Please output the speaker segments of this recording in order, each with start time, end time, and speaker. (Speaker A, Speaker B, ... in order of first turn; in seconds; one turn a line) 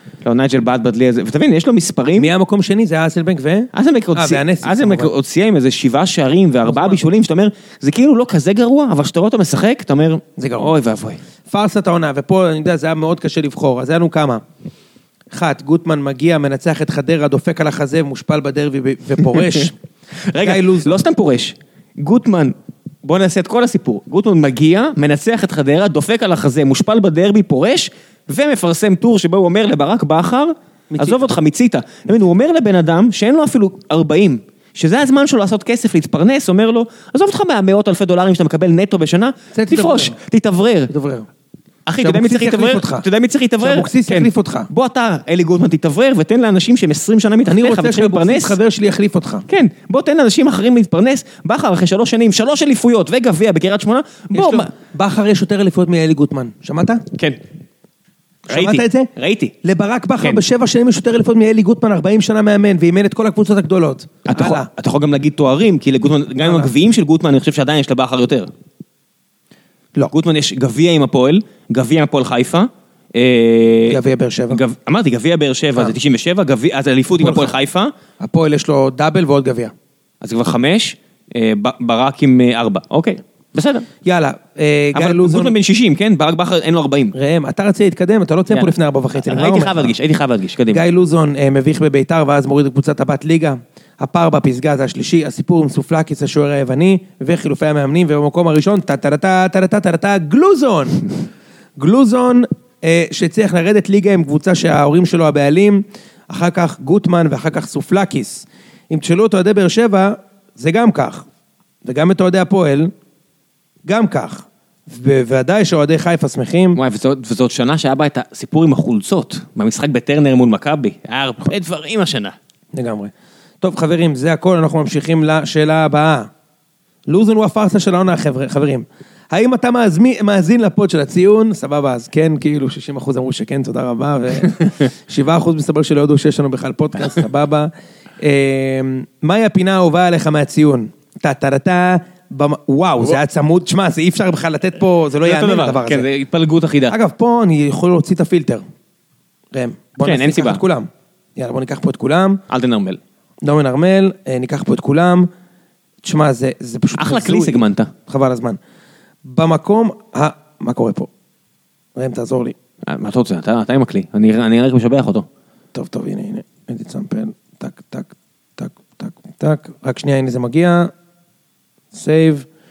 Speaker A: 0.2-2.3
Speaker B: 2.2-5.1
Speaker A: 3.7-11.2
Speaker B: 6.6-7.0
Speaker B: 10.4-10.8
Speaker B: 11.5-14.4
Speaker B: 15.3-19.7
Speaker A: 20.3-40.9
Speaker B: 20.4-21.0
Speaker B: 30.9-31.3
Speaker B: 39.5-40.2
Speaker B: 40.9-41.3
Speaker A: 41.9-48.6
Speaker B: 42.0-43.0
Speaker B: 43.6-44.7
Speaker B: 47.5-49.5
Speaker A: 49.5-54.7
Speaker B: 54.3-57.0
Speaker A: 57.1-57.4
Speaker B: 58.5-59.1
Speaker A: 58.5-59.5
Speaker B: 59.6-64.7
Speaker A: 64.2-68.5
Speaker B: 66.4-66.7
Speaker A: 70.1-77.9
Speaker B: 73.9-74.6
Speaker B: 77.2-77.5
Speaker B: 78.2-79.7
Speaker A: 80.2-83.9
Speaker B: 84.0-85.5
Speaker A: 84.9-87.1
Speaker B: 87.1-89.9
Speaker A: 88.5-90.8
Speaker B: 90.7-101.1
Speaker B: 101.8-111.2
Speaker B: 111.8-112.9
Speaker B: 113.9-116.8
Speaker A: 116.8-122.3
Speaker B: 122.7-126.3
Speaker B: 127.1-137.7
Speaker B: 138.2-146.1
Speaker A: 145.2-146.9
Speaker B: 146.9-148.6
Speaker B: 149.5-152.4
Speaker A: 150.0-150.6
Speaker A: 152.5-153.0
Speaker B: 153.4-155.3
Speaker B: 156.0-158.6
Speaker A: 157.0-157.9
Speaker B: 159.2-161.1
Speaker B: 161.9-162.5
Speaker A: 162.8-165.2
Speaker B: 165.7-170.9
Speaker B: 171.9-172.5